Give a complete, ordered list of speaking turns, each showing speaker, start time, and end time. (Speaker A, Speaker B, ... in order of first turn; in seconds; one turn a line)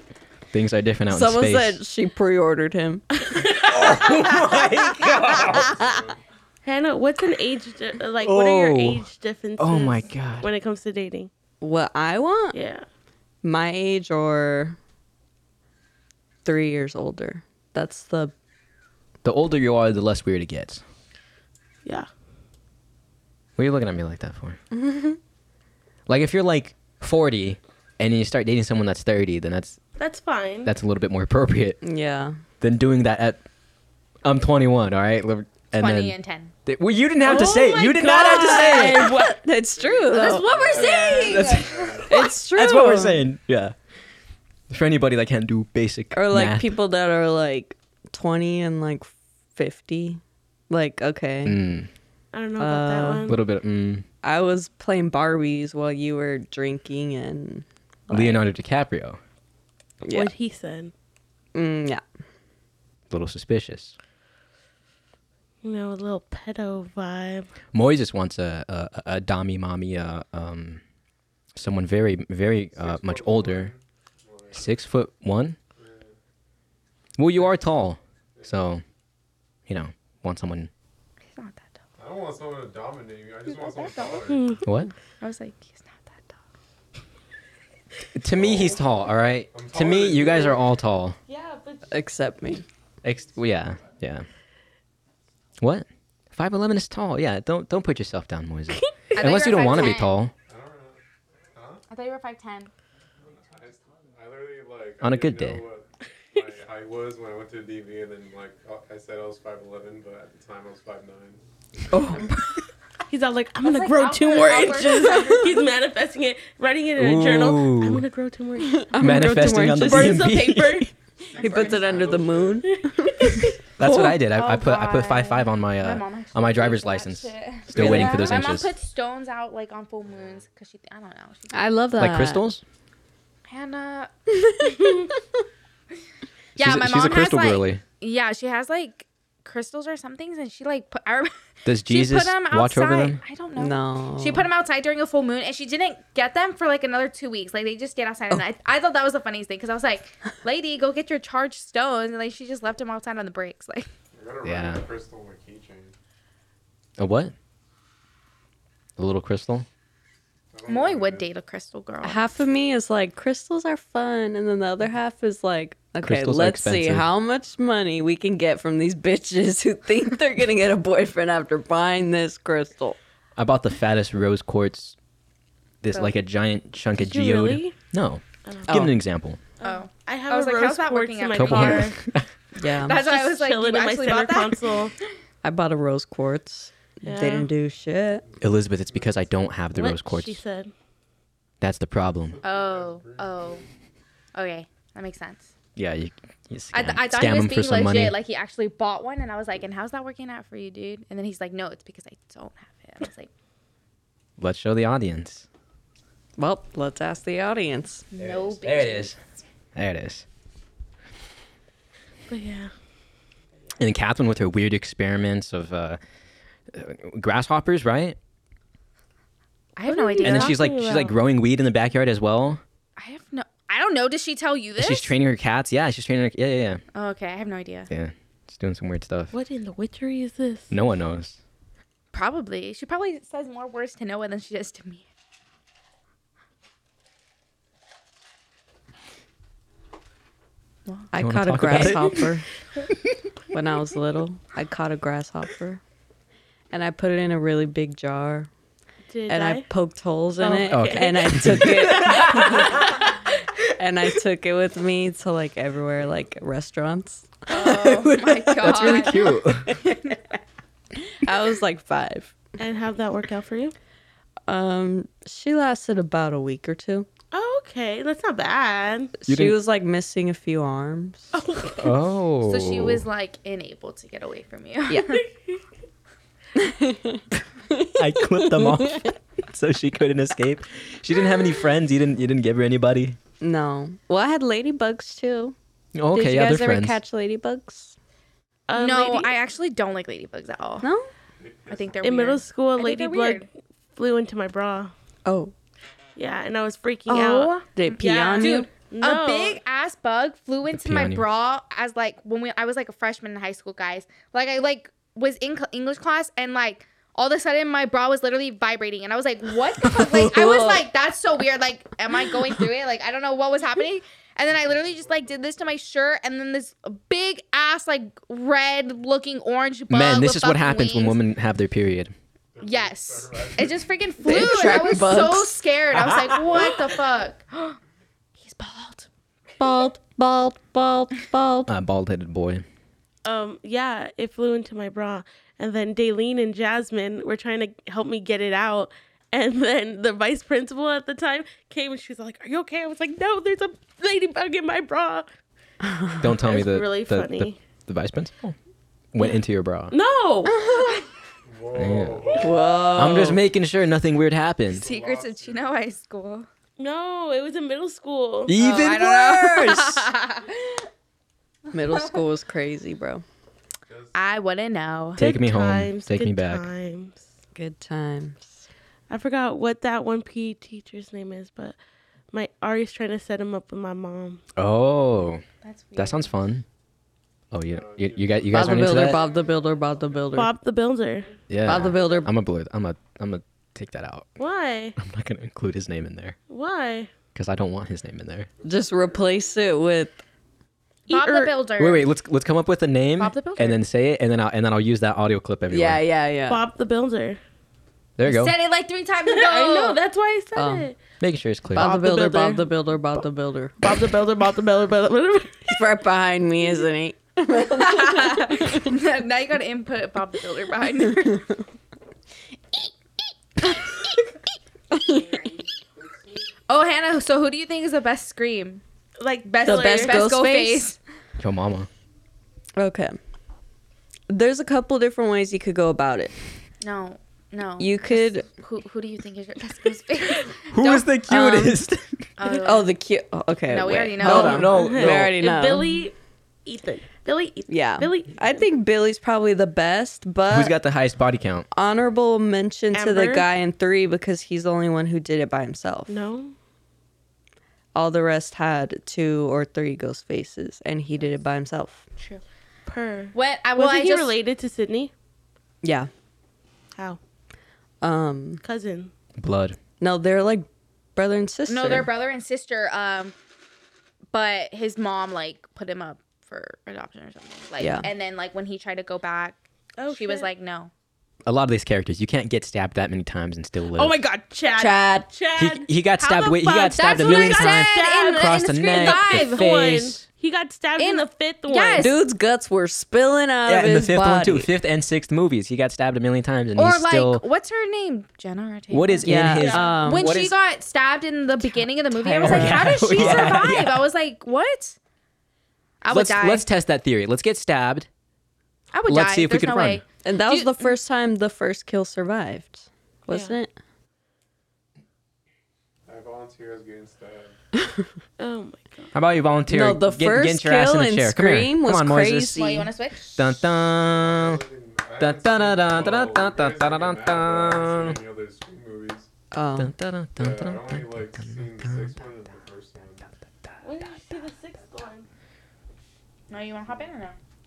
Speaker A: 0.5-1.8
Speaker B: 1.1-3.0
Speaker C: 3.3-4.6
Speaker A: 3.8-5.8
Speaker B: 4.9-6.0
Speaker D: 5.6-6.2
Speaker C: 6.6-11.3
Speaker A: 8.2-9.1
Speaker A: 9.6-10.5
Speaker B: 11.6-12.6
Speaker C: 12.5-12.9
Speaker B: 13.4-14.8
Speaker B: 16.4-18.3
Speaker A: 19.2-20.8
Speaker A: 23.6-24.6
Speaker B: 24.7-25.2
Speaker A: 26.1-29.8
Speaker C: 30.0-30.7
Speaker A: 30.6-31.8
Speaker B: 31.8-32.4
Speaker A: 32.6-33.4
Speaker A: 34.2-39.1
Speaker E: 35.7-36.5
Speaker C: 37.2-39.4
Speaker B: 37.6-40.5
Speaker C: 40.0-41.3
Speaker E: 40.1-42.2
Speaker D: 40.4-42.2
Speaker A: 41.2-43.7
Speaker B: 42.1-43.3
Speaker A: 44.7-46.7
Speaker B: 46.1-51.6
Speaker A: 51.5-51.9
Speaker C: 52.3-53.4
Speaker B: 52.6-53.3
Speaker A: 53.3-54.0
Speaker B: 54.2-58.4
Speaker A: 58.1-59.2
Speaker B: 60.0-60.3
Speaker C: 60.1-60.9
Speaker B: 61.5-62.0
Speaker A: 63.1-64.0
Speaker C: 65.6-67.5
Speaker A: 67.7-70.8
Speaker A: 71.5-73.7
Speaker D: 72.7-74.7
Speaker A: 74.5-75.6
Speaker D: 75.8-76.2
Speaker A: 77.2-78.8
Speaker D: 78.4-78.7
Speaker A: 79.7-80.7
Speaker E: 81.3-81.7
Speaker D: 82.0-84.6
Speaker E: 83.5-84.3
Speaker C: 84.3-84.7
Speaker A: 84.6-84.9
Speaker E: 85.2-86.4
Speaker A: 88.2-91.2
Speaker D: 88.3-88.8
Speaker D: 89.5-90.6
Speaker C: 91.3-91.8
Speaker B: 91.9-92.6
Speaker A: 93.0-94.3
Speaker A: 95.6-100.3
Speaker E: 99.1-100.1
Speaker D: 100.5-101.0
Speaker D: 101.5-101.8
Speaker E: 101.9-102.7
Speaker D: 103.2-111.4
Speaker A: 105.0-105.7
Speaker B: 111.9-112.3
Speaker C: 113.1-119.2
Speaker E: 113.6-115.5
Speaker B: 115.1-115.5
Speaker A: 117.0-118.0
Speaker B: 118.8-120.4
Speaker A: 119.0-120.9
Speaker C: 119.7-122.0
Speaker D: 121.3-122.7
Speaker B: 121.4-124.2
Speaker E: 121.4-121.8
Speaker C: 122.7-123.4
Speaker A: 123.8-128.7
Speaker E: 124.1-131.7
Speaker B: 127.7-128.4
Speaker D: 130.1-130.4
Speaker B: 131.5-132.5
Speaker A: 132.0-132.6
Speaker E: 133.5-134.1
Speaker E: 136.6-141.3
Speaker A: 136.6-137.8
Speaker A: 141.7-143.2
Speaker E: 141.9-153.9
Speaker B: 143.6-144.5
Speaker D: 154.1-155.9
Speaker A: 154.4-154.8
Speaker A: 157.0-157.3
Speaker A: 159.0-159.7
Speaker D: 160.5-161.3
Speaker E: 160.7-162.2
Speaker B: 162.0-173.0
Speaker A: 166.0-167.1
Speaker A: 173.4-174.9
Speaker A: 175.8-179.4
Speaker C: 177.0-177.7
Speaker C: 178.4-178.8
Speaker B: 178.7-178.9
Speaker C: 179.6-182.0
Speaker E: 179.6-181.9
Speaker A: 181.3-182.3
Speaker B: 182.6-183.0
Speaker E: 182.9-184.7
Speaker C: 182.9-184.9
Speaker B: 185.4-188.2
Speaker C: 187.1-187.5
Speaker A: 188.4-190.4
Speaker C: 189.8-190.7
Speaker A: 191.6-192.4
Speaker D: 192.3-193.7
Speaker E: 192.4-193.6
Speaker E: 194.3-195.5
Speaker A: 195.8-198.2
Speaker E: 196.7-203.3
Speaker A: 204.4-205.5
Speaker B: 206.4-208.1
Speaker E: 208.1-209.2
Speaker A: 208.2-209.2
Speaker A: 209.7-210.3
Speaker C: 212.3-212.7
Speaker A: 213.8-216.0
Speaker A: 216.7-218.2
Speaker E: 219.8-220.6
Speaker C: 219.8-221.2
Speaker A: 220.2-222.6
Speaker E: 223.0-225.1
Speaker A: 224.8-226.8
Speaker E: 226.9-227.9
Speaker A: 227.9-229.3
Speaker C: 229.3-230.7
Speaker A: 230.7-231.4
Speaker E: 232.1-235.1
Speaker B: 241.1-242.4
Speaker A: 241.2-242.2
Speaker B: 243.5-245.8
Speaker B: 246.7-248.5
Speaker C: 249.1-249.7
Speaker B: 249.3-253.0
Speaker C: 250.4-252.6
Speaker A: 250.7-252.2
Speaker B: 253.7-258.1
Speaker E: 257.5-259.2
Speaker A: 258.1-259.7
Speaker B: 258.7-259.1
Speaker B: 259.7-260.0
Speaker B: 261.2-262.4
Speaker C: 262.6-263.7
Speaker B: 264.5-267.1
Speaker C: 267.3-269.1
Speaker B: 269.2-271.3
Speaker A: 269.3-269.6
Speaker C: 271.4-271.8
Speaker A: 271.8-273.0
Speaker E: 272.4-275.2
Speaker B: 274.9-275.2
Speaker B: 276.6-279.1
Speaker A: 278.0-283.2
Speaker B: 283.4-285.6
Speaker A: 285.9-287.0
Speaker B: 286.1-287.9
Speaker C: 288.7-289.3
Speaker E: 288.7-290.9
Speaker B: 290.8-291.1
Speaker D: 291.4-292.2
Speaker E: 291.7-293.5
Speaker C: 292.0-294.9
Speaker B: 295.2-295.5
Speaker C: 296.2-299.6
Speaker E: 297.1-321.2
Speaker B: 297.7-298.7
Speaker A: 300.7-301.2
Speaker B: 309.8-310.9
Speaker A: 319.9-322.1
Speaker D: 322.6-323.9
Speaker E: 322.6-327.8
Speaker B: 324.2-325.6
Speaker E: 328.4-329.1
Speaker B: 329.6-331.7
Speaker A: 331.7-332.6
Speaker C: 333.2-345.3
Speaker B: 345.9-346.2
Speaker A: 346.2-348.6
Speaker C: 346.4-347.6
Speaker A: 349.1-349.9
Speaker C: 349.9-350.6
Speaker B: 350.4-351.0
Speaker D: 351.4-352.7
Speaker A: 351.7-352.4
Speaker B: 352.4-353.4
Speaker A: 352.9-354.9
Speaker D: 354.6-355.8
Speaker E: 354.8-356.5
Speaker C: 356.8-358.5
Speaker A: 358.5-360.1
Speaker E: 358.6-360.8
Speaker B: 361.7-363.2
Speaker D: 363.9-364.2
Speaker E: 364.1-365.2
Speaker A: 365.2-366.6
Speaker C: 365.2-367.3
Speaker B: 367.5-368.6
Speaker C: 369.1-371.8
Speaker C: 372.3-374.4
Speaker A: 374.6-375.4
Speaker E: 375.6-376.4
Speaker A: 376.0-376.6
Speaker A: 377.5-379.3
Speaker D: 377.6-379.6
Speaker B: 378.5-380.5
Speaker C: 380.3-381.3
Speaker A: 381.5-384.3
Speaker B: 381.6-382.3
Speaker C: 384.4-384.9
Speaker A: 385.0-386.4
Speaker C: 386.5-387.1
Speaker A: 387.4-388.5
Speaker B: 388.6-390.2
Speaker E: 391.1-392.1
Speaker C: 391.1-391.6
Speaker A: 391.8-396.0
Speaker E: 393.2-393.8
Speaker B: 395.7-396.7
Speaker C: 396.4-397.4
Speaker A: 398.2-398.6
Speaker E: 398.2-400.0
Speaker C: 399.3-400.9
Speaker B: 400.6-400.9
Speaker A: 401.2-401.9
Speaker B: 401.7-403.7
Speaker C: 401.8-402.7
Speaker C: 403.8-405.6
Speaker B: 405.7-408.9
Speaker E: 407.8-411.4
Speaker B: 414.9-415.5
Speaker E: 416.7-418.8
Speaker C: 419.2-420.3
Speaker E: 419.4-421.0
Speaker B: 419.6-420.9
Speaker A: 421.4-421.9
Speaker B: 422.8-423.2
Speaker B: 424.3-426.3
Speaker E: 426.8-431.1
Speaker B: 427.8-428.4
Speaker A: 430.7-432.3
Speaker B: 431.3-431.8
Speaker E: 432.4-432.9
Speaker B: 432.6-436.1
Speaker E: 433.7-434.7
Speaker A: 434.2-435.4
Speaker C: 434.2-436.1
Speaker C: 436.6-438.6
Speaker B: 437.7-440.8
Speaker A: 440.5-441.7
Speaker B: 441.7-446.2
Speaker C: 442.9-443.5
Speaker C: 446.1-446.6
Speaker B: 447.9-452.1
Speaker C: 452.9-455.1
Speaker E: 453.3-454.4
Speaker B: 455.8-456.1
Speaker B: 458.0-458.6
Speaker C: 458.6-459.1
Speaker A: 459.4-459.8
Speaker B: 460.0-462.1
Speaker E: 461.7-463.4
Speaker E: 464.3-470.9
Speaker B: 467.8-468.1
Speaker C: 470.0-470.5
Speaker A: 471.4-474.1
Speaker C: 473.9-482.2
Speaker B: 474.7-475.3
Speaker A: 475.6-480.2
Speaker E: 476.9-479.6
Speaker E: 481.0-482.2
Speaker B: 482.0-484.7
Speaker A: 483.7-487.4
Speaker E: 486.8-495.0
Speaker A: 488.9-490.6
Speaker B: 489.2-490.3
Speaker C: 489.7-490.0
Speaker B: 491.7-493.6
Speaker A: 492.4-494.1
Speaker E: 496.0-496.6
Speaker A: 496.1-498.1
Speaker E: 498.9-500.8
Speaker A: 499.1-500.0
Speaker B: 500.2-503.7
Speaker C: 503.3-503.6
Speaker D: 506.1-507.6
Speaker C: 508.4-509.1
Speaker A: 509.1-512.6
Speaker B: 509.7-512.9
Speaker E: 512.5-513.4
Speaker A: 513.4-514.6
Speaker D: 514.2-519.3
Speaker A: 515.2-518.2
Speaker B: 519.5-519.9
Speaker A: 519.8-522.1
Speaker D: 520.4-523.3
Speaker C: 523.8-525.3
Speaker E: 526.5-527.4